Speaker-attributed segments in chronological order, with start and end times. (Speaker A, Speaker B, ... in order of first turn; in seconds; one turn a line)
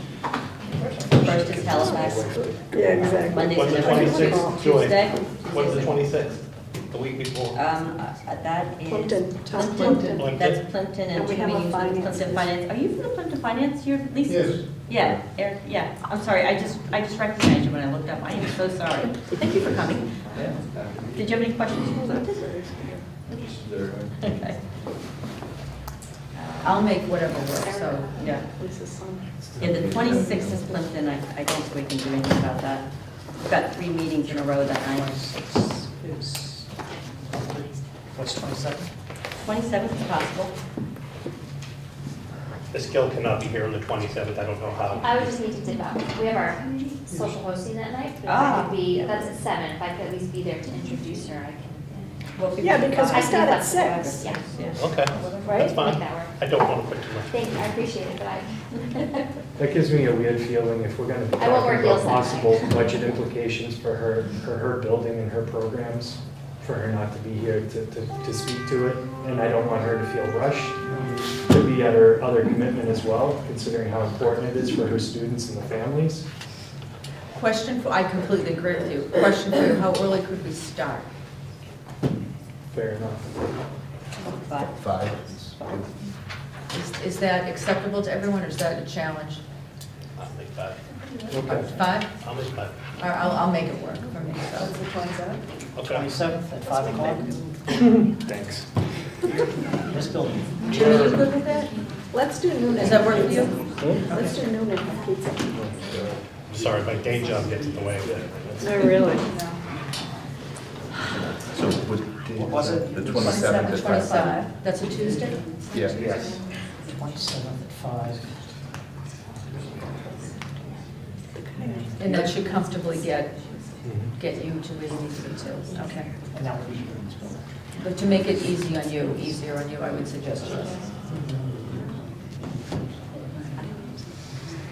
Speaker A: 1.1-2.4
Speaker B: 1.2-3.4
Speaker C: 1.9-4.6
Speaker A: 3.2-6.0
Speaker D: 3.4-7.6
Speaker A: 7.5-20.5
Speaker C: 8.9-10.2
Speaker D: 10.2-10.6
Speaker C: 11.1-12.5
Speaker E: 14.3-15.2
Speaker E: 19.5-19.8
Speaker E: 20.4-21.4
Speaker A: 21.1-22.6
Speaker C: 22.4-23.0
Speaker E: 23.3-24.4
Speaker A: 24.2-24.6
Speaker A: 26.4-26.9
Speaker F: 26.6-28.2
Speaker A: 28.1-28.5
Speaker C: 28.4-29.4
Speaker A: 29.6-32.9
Speaker E: 29.6-30.1
Speaker C: 30.1-30.5
Speaker A: 33.4-35.2
Speaker G: 34.9-36.7
Speaker G: 37.3-38.9
Speaker A: 39.4-40.5
Speaker D: 42.7-45.3
Speaker H: 45.0-52.2
Speaker A: 48.2-48.8
Speaker A: 52.4-55.6
Speaker C: 52.6-54.2
Speaker H: 53.1-54.5
Speaker D: 54.7-57.7
Speaker C: 55.5-55.7
Speaker H: 55.6-56.3
Speaker H: 57.3-59.2
Speaker B: 59.6-70.8
Speaker H: 61.4-62.7
Speaker B: 71.4-76.3
Speaker F: 77.3-81.1
Speaker B: 82.7-83.3
Speaker A: 84.2-84.7
Speaker E: 84.6-85.9
Speaker F: 86.7-89.4
Speaker D: 90.2-90.8
Speaker B: 91.3-91.7
Speaker F: 91.5-92.1
Speaker D: 92.2-92.8
Speaker F: 93.0-94.8
Speaker D: 95.8-96.1
Speaker G: 95.9-97.5
Speaker B: 98.1-98.7
Speaker G: 99.9-100.7
Speaker F: 100.6-101.8
Speaker D: 100.7-101.2
Speaker B: 100.7-101.0
Speaker C: 102.1-105.5
Speaker F: 102.8-104.4
Speaker B: 103.8-104.1
Speaker B: 105.5-106.1
Speaker D: 106.5-108.6
Speaker B: 108.0-108.9
Speaker C: 108.6-109.2
Speaker F: 109.2-109.6
Speaker E: 111.2-114.5
Speaker G: 112.4-113.1
Speaker F: 113.1-116.4
Speaker E: 115.7-116.4
Speaker G: 116.8-118.4
Speaker C: 121.4-122.0
Speaker F: 122.0-123.4
Speaker B: 123.8-124.1
Speaker F: 124.1-126.1
Speaker G: 126.3-127.4
Speaker F: 127.8-130.9